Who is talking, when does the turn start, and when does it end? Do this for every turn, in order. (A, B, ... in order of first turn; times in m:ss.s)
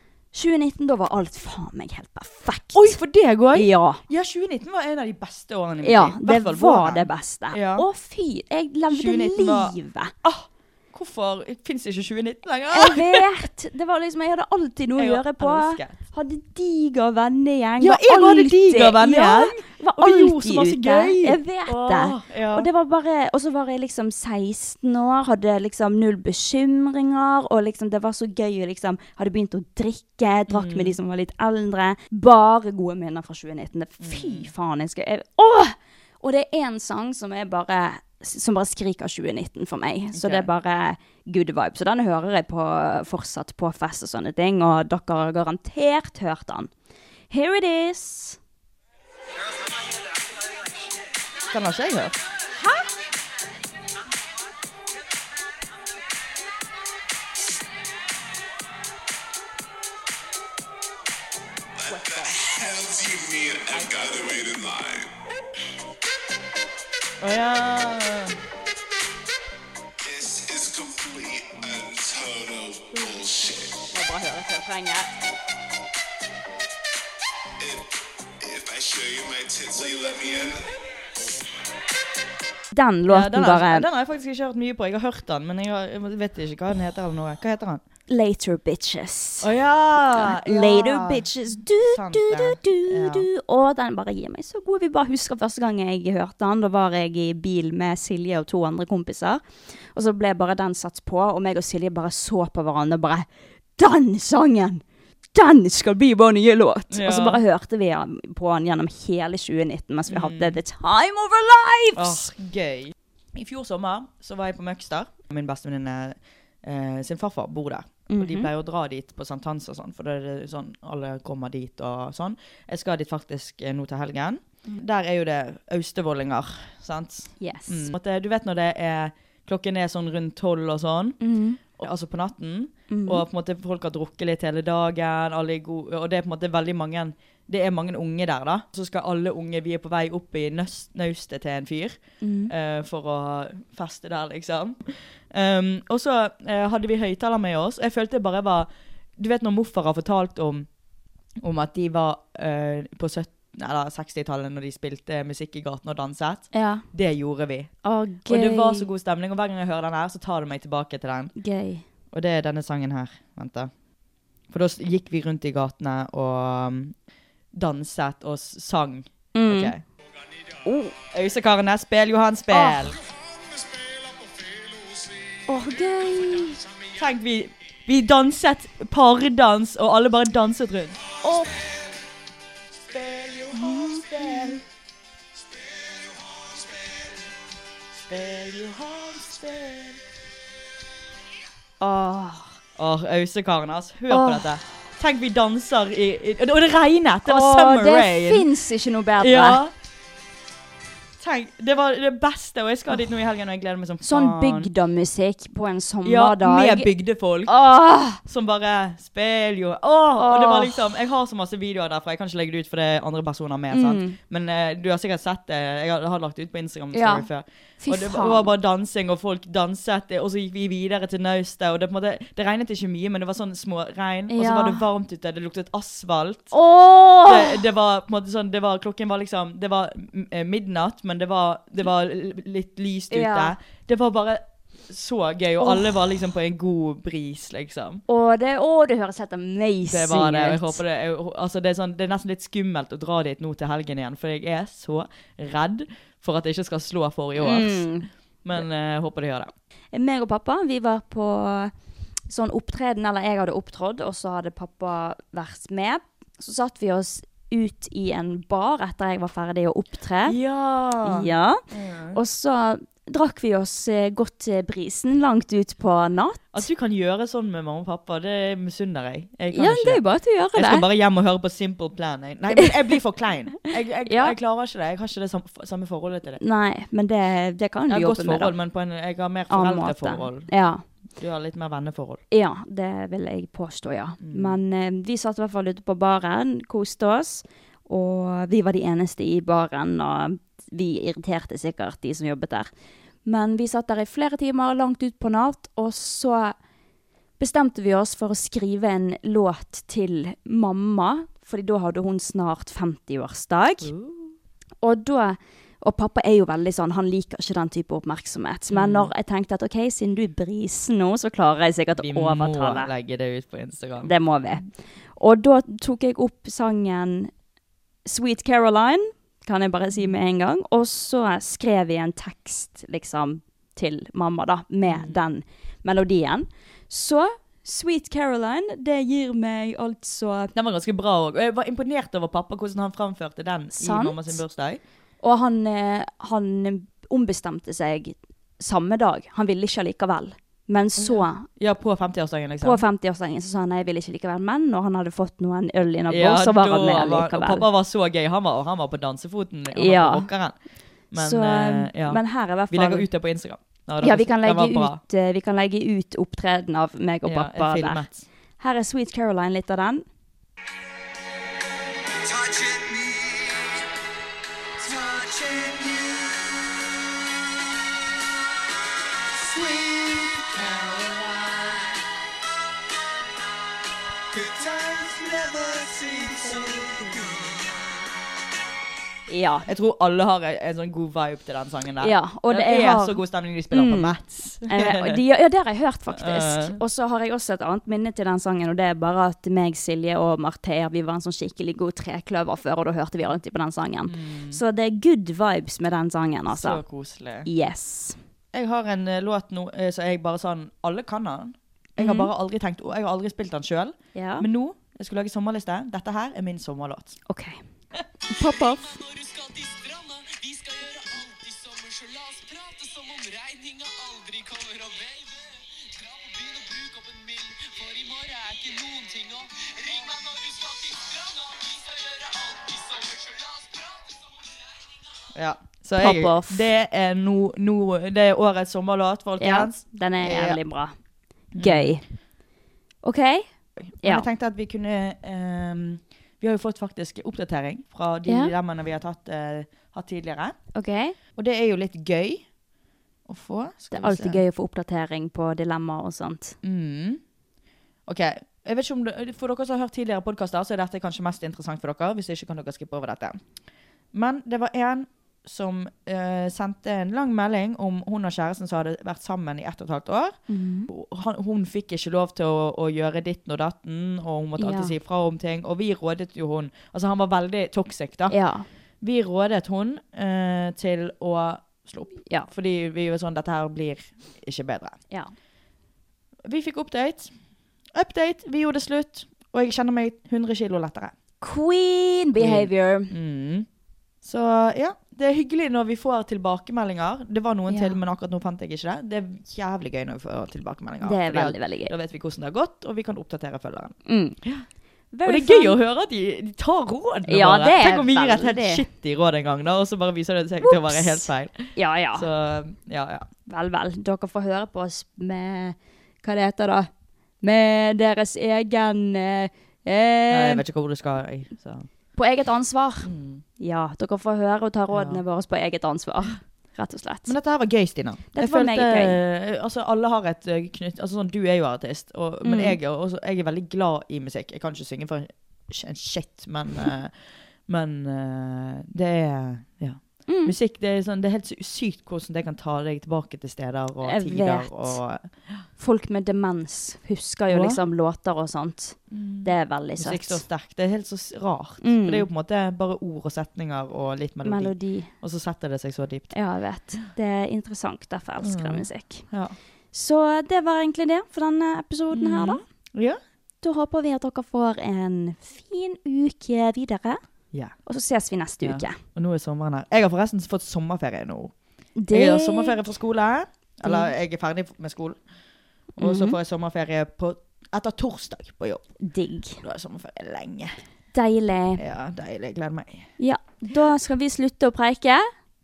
0:00.3-0:03.0 A
0:02.7-0:07.9 B
0:03.5-0:04.0 A
0:05.8-0:10.1 A
0:08.9-0:13.3 B
0:12.7-0:46.7 A
0:15.0-0:16.0 B
0:17.8-0:22.7 B
0:30.5-0:31.0 B
0:34.0-0:34.5 B
0:40.1-0:40.5 B
0:47.3-0:48.4 A
0:51.5-0:52.2 B
1:01.8-1:05.1 C
1:01.9-1:02.4 A
1:07.2-1:08.4 B
1:10.0-1:13.8 C
1:13.9-1:15.1 A
1:17.6-1:17.9 C
1:18.4-1:20.7 C
1:22.7-1:23.9 A
1:23.1-1:27.8 B
1:28.1-1:29.5 A
1:29.4-1:33.3 B
1:30.1-1:39.4 A
1:39.9-1:44.8 A
1:45.4-1:52.3 A
1:46.9-1:47.4 B
1:50.1-1:50.6 B
1:52.0-2:11.2 B
1:58.1-1:58.5 A
2:07.4-2:07.9 A
2:11.2-2:11.6 A
2:11.8-2:30.7 B
2:12.9-2:13.2 A
2:22.2-2:22.5 A
2:31.4-2:37.7 B
2:36.5-2:36.8 A
2:37.8-2:38.9 A
2:38.2-2:41.3 B
2:41.4-2:41.8 A
2:42.1-2:43.7 B
2:44.5-2:47.0 B
2:47.5-2:49.8 B
2:49.4-2:49.7 A
2:50.6-2:51.0 A
2:51.1-2:53.0 B
2:52.5-2:52.9 A
2:54.6-2:54.9 C
2:55.5-2:56.6 A
2:56.9-3:01.0 B
3:01.2-3:01.5 A
3:02.9-3:04.6 B
3:03.5-3:04.6 A
3:08.1-3:10.0 B
3:11.8-3:12.6 A
3:12.8-3:18.5 B
3:14.1-3:14.5 A
3:17.2-3:19.6 A
3:19.2-3:19.7 B
3:21.2-3:24.7 B
3:24.0-3:26.9 A
3:26.0-3:27.5 B
3:27.5-3:28.2 A
3:28.2-3:46.6 B
3:30.2-3:30.9 A
3:33.7-3:34.2 A
3:36.9-3:37.3 A
3:37.8-3:38.5 A
3:44.3-3:44.8 A
3:46.5-3:47.6 A
3:47.2-3:58.0 B
3:53.1-3:53.6 A
3:58.1-4:00.8 A
3:59.9-4:07.9 B
4:07.4-4:08.1 A
4:08.4-4:09.5 B
4:09.9-4:11.7 A
4:12.3-4:20.4 A
4:20.3-4:22.2 B
4:21.0-4:21.6 A
4:22.1-4:26.6 A
4:26.5-4:30.0 B
4:29.5-4:30.9 A
4:30.6-4:36.4 B
4:34.1-4:34.4 A
4:36.4-4:38.6 A
4:37.9-4:40.5 B
4:39.5-4:40.8 A
4:41.2-4:42.2 B
4:42.3-4:52.7 A
4:44.2-4:44.6 B
4:53.3-4:56.6 A
4:57.4-5:03.9 A
5:03.8-5:04.3 B
5:04.8-5:12.9 A
5:08.7-5:09.1 B
5:12.0-5:14.1 B
5:14.0-5:14.6 A
5:15.2-5:17.3 A
5:18.0-5:30.5 A
5:24.8-5:25.2 B
5:30.5-5:34.8 B
5:33.8-5:34.4 A
5:35.2-5:41.5 A
5:41.0-5:42.8 B
5:42.6-5:47.7 A
5:46.1-5:50.6 B
5:49.7-5:50.3 A
5:51.1-5:55.0 B
5:51.2-5:53.1 A
5:54.0-5:58.1 A
5:57.2-5:58.3 B
5:58.6-6:00.1 A
6:04.8-6:06.1 B
6:09.5-6:11.6 B
6:14.3-6:17.2 B
6:19.3-6:19.7 A
6:19.7-6:25.2 B
6:22.0-6:23.2 A
6:23.7-6:24.2 A
6:24.7-6:36.8 A
6:26.1-6:26.8 B
6:34.1-6:34.6 B
6:36.5-6:37.5 B
6:37.4-6:38.2 A
6:38.5-6:47.2 B
6:42.0-6:42.3 A
6:44.2-6:44.5 A
6:47.3-6:47.6 A
6:48.3-6:49.0 A
6:48.4-6:48.8 B
6:49.8-6:51.1 B
7:05.3-7:10.6 B
7:06.0-7:06.6 A
7:09.4-7:10.9 A
7:11.6-7:12.0 B
7:11.6-7:12.0 A
7:13.0-7:13.5 A
7:13.8-7:20.6 B
7:18.3-7:18.5 A
7:20.7-7:21.2 A
7:21.4-7:22.5 B
7:23.3-7:24.4 B
7:23.9-7:26.6 A
7:26.6-7:27.2 B
7:28.1-7:33.4 B
7:34.1-7:48.4 B
7:40.5-7:40.9 A
7:44.6-7:45.0 A
7:48.3-7:48.7 A
7:49.0-7:55.0 B
7:56.4-7:57.3 B
7:57.9-8:01.1 B
8:01.4-8:03.1 A
8:02.4-8:03.7 B
8:04.2-8:14.7 B
8:07.7-8:08.0 A
8:11.0-8:11.9 A
8:14.1-8:14.4 A
8:15.1-8:15.8 A
8:15.2-8:23.3 B
8:17.3-8:18.8 A
8:20.6-8:22.3 A
8:23.5-8:26.9 A
8:27.4-8:30.6 A
8:30.3-8:31.9 B
8:32.2-8:37.4 A
8:33.0-8:33.4 B
8:34.9-8:35.2 B
8:37.3-8:47.1 B
8:38.3-8:39.2 A
8:42.4-8:42.8 A
8:47.7-8:55.3 B
8:50.3-8:50.5 A
8:54.0-8:55.0 A
8:55.8-9:00.4 A
8:57.5-8:57.8 B
8:59.1-9:06.3 B
9:01.8-9:02.3 A
9:04.4-9:05.1 A
9:06.3-9:09.3 A
9:08.4-9:09.6 B
9:09.9-9:12.6 A
9:12.1-9:13.2 B
9:13.6-9:17.2 A
9:17.9-9:19.0 A
9:18.6-9:21.5 B
9:22.0-9:22.8 A
9:22.1-9:25.2 B
9:23.8-9:24.1 A
9:26.0-9:28.8 B
9:26.0-9:26.4 A
9:29.0-9:29.6 A
9:29.6-9:30.8 B
9:31.1-9:31.8 A
9:31.8-9:33.1 B
9:33.2-9:35.3 A